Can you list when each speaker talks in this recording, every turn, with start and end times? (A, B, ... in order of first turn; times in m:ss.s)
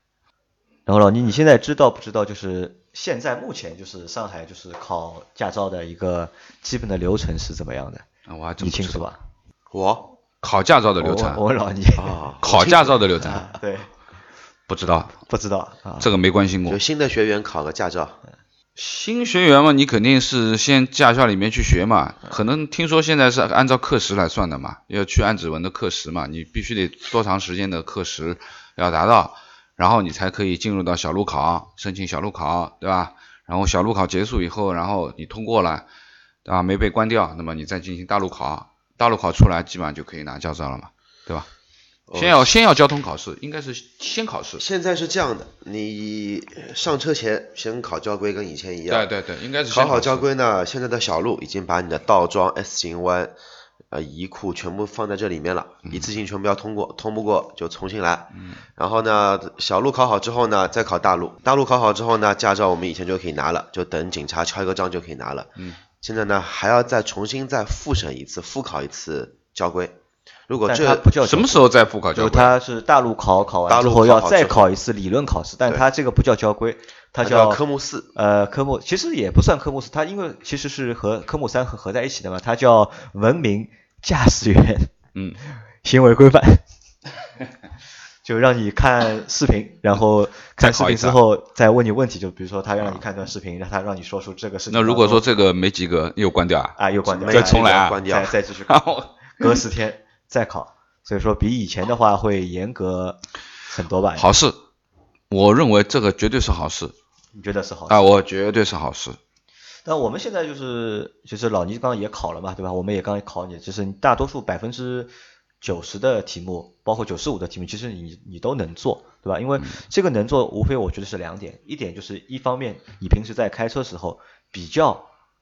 0:00.9-0:08.1 A
0:08.3-0:09.1 B
0:08.6-0:09.2 A
0:09.7-0:10.1 C
0:10.4-0:11.4 B
0:11.0-0:12.3 A
0:12.0-0:12.8 C
0:12.4-0:13.5 B
0:13.2-0:13.9 A
0:14.7-0:15.2 B
0:15.3-0:16.1 A
0:16.0-0:16.8 B
0:16.7-0:18.2 C
0:18.8-0:35.9 B
0:36.4-0:41.5 B
0:42.1-0:42.5 C
0:42.1-0:44.6 B
0:44.6-0:49.1 C
0:48.9-0:50.3 B
0:49.7-0:53.4 C
0:53.9-1:10.0 C
0:58.4-0:58.6 B
1:10.5-1:11.1 C
1:10.6-1:17.6 A
1:11.2-1:12.6 B
1:13.7-1:14.7 C
1:17.2-1:18.1 C
1:18.1-1:24.9 A
1:25.8-1:26.6 A
1:28.2-1:35.2 A
1:30.6-1:31.2 B
1:34.7-1:36.8 B
1:36.8-1:44.3 A
1:37.1-1:38.3 C
1:37.3-1:38.1 B
1:38.7-1:39.6 B
1:44.2-1:44.6 B
1:45.3-1:46.9 B
1:47.3-1:48.1 A
1:47.9-1:49.2 B
1:49.8-2:05.1 A